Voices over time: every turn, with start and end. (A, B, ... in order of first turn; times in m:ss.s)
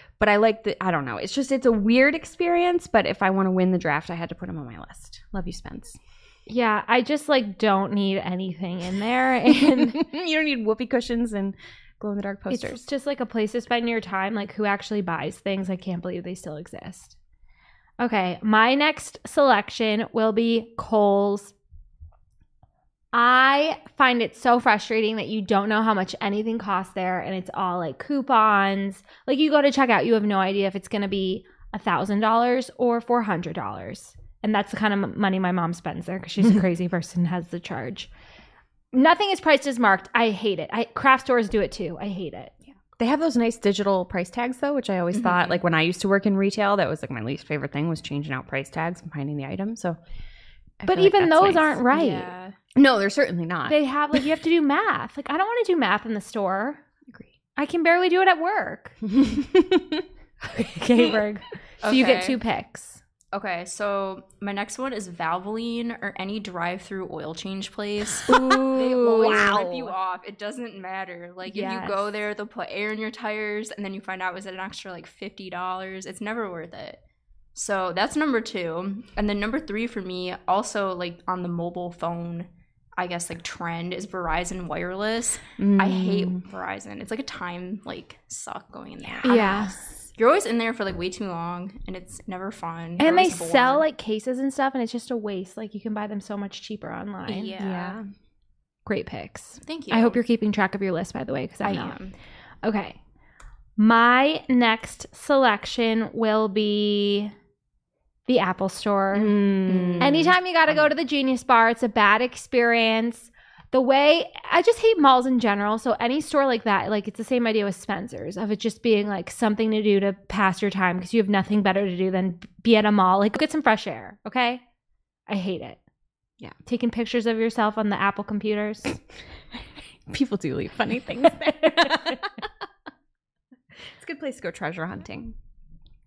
0:00.2-0:06.0 A
0:06.5-0:10.0 B
0:09.7-0:12.9 A
0:12.5-0:17.2 B
0:18.0-0:21.5 B
0:23.1-0:38.1 B
0:38.9-0:42.5 B
0:43.0-0:50.0 A
0:45.2-0:45.5 C
0:50.8-0:51.8 A
0:50.8-0:52.3 B
0:51.9-0:52.6 C
0:52.7-0:53.8 A
0:53.7-0:56.8 B
0:57.6-0:59.0 B
0:59.1-1:00.0 A
1:00.5-1:03.0 B
1:01.8-1:02.4 C
1:03.3-1:17.0 C
1:08.3-1:09.9 A
1:11.4-1:12.0 B
1:17.6-1:33.8 C
1:25.6-1:26.4 A
1:29.0-1:29.7 A
1:29.2-1:29.7 B
1:33.0-1:37.5 B
1:37.3-1:38.0 C
1:37.6-1:38.1 A
1:38.8-1:42.0 B
1:39.6-1:40.2 C
1:41.6-1:42.1 C
1:42.6-1:43.0 B
1:43.8-1:47.3 B
1:48.3-1:49.4 B
1:49.1-1:50.3 A
1:49.7-1:50.3 C
1:50.0-2:04.6 B
2:05.3-2:05.8 B
2:06.6-2:09.0 B
2:10.1-2:12.5 A
2:11.5-2:12.2 B
2:13.9-2:15.3 A